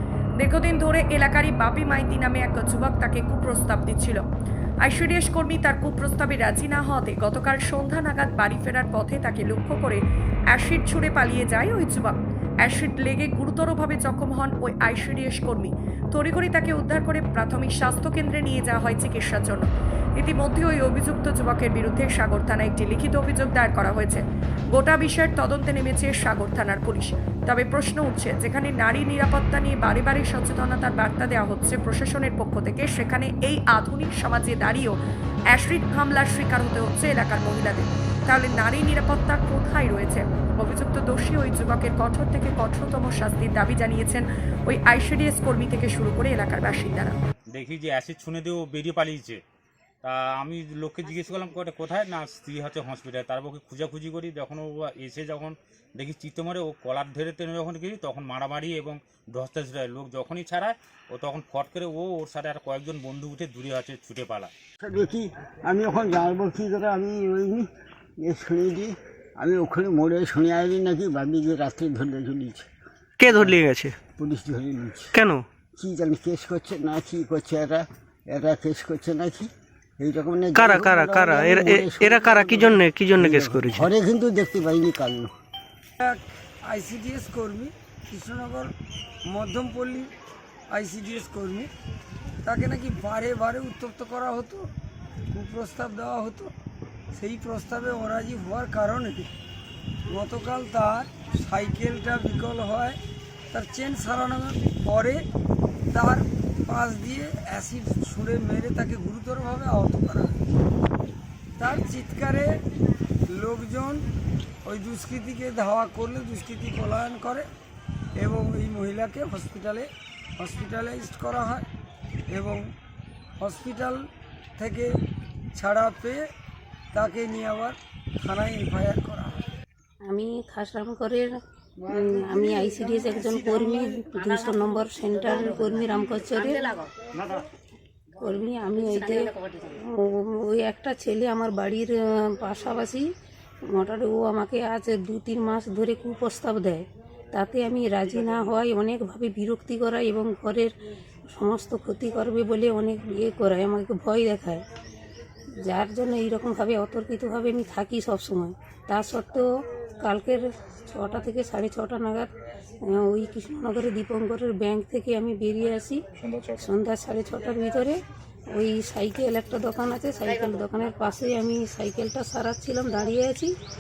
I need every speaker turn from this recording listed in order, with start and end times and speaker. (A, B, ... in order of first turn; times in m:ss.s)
0:00.4-0:04.2 A
0:04.8-0:35.0 A
0:35.5-0:47.2 A
0:47.5-0:49.4 B
0:50.0-1:04.5 B
1:04.8-1:12.7 C
1:13.2-1:14.0 D
1:13.2-1:13.6 C
1:14.1-1:15.1 C
1:15.1-1:15.4 D
1:15.8-1:25.3 C
1:20.5-1:23.9 D
1:26.0-1:28.7 E
1:29.3-1:30.1 E
1:30.7-1:31.7 E
1:32.4-1:34.7 E
1:35.3-1:36.5 E
1:37.1-1:39.3 E
1:40.1-1:43.0 E
1:43.5-1:45.2 E
1:45.9-1:50.4 E
1:51.6-1:52.6 E
1:53.3-1:54.1 E
1:54.6-1:57.5 E
1:58.2-2:01.7 E
2:02.3-2:02.7 E
2:03.4-2:04.0 E
2:04.6-2:05.0 E
2:05.6-2:06.3 E
2:06.9-2:09.4 E
2:10.1-2:16.7 F
2:18.2-2:23.1 F
2:23.7-2:30.7 F
2:31.3-2:34.6 F
2:35.7-2:39.5 F
2:40.0-2:42.3 F
2:42.8-2:46.0 F
2:46.5-2:48.0 F
2:48.5-2:53.5 F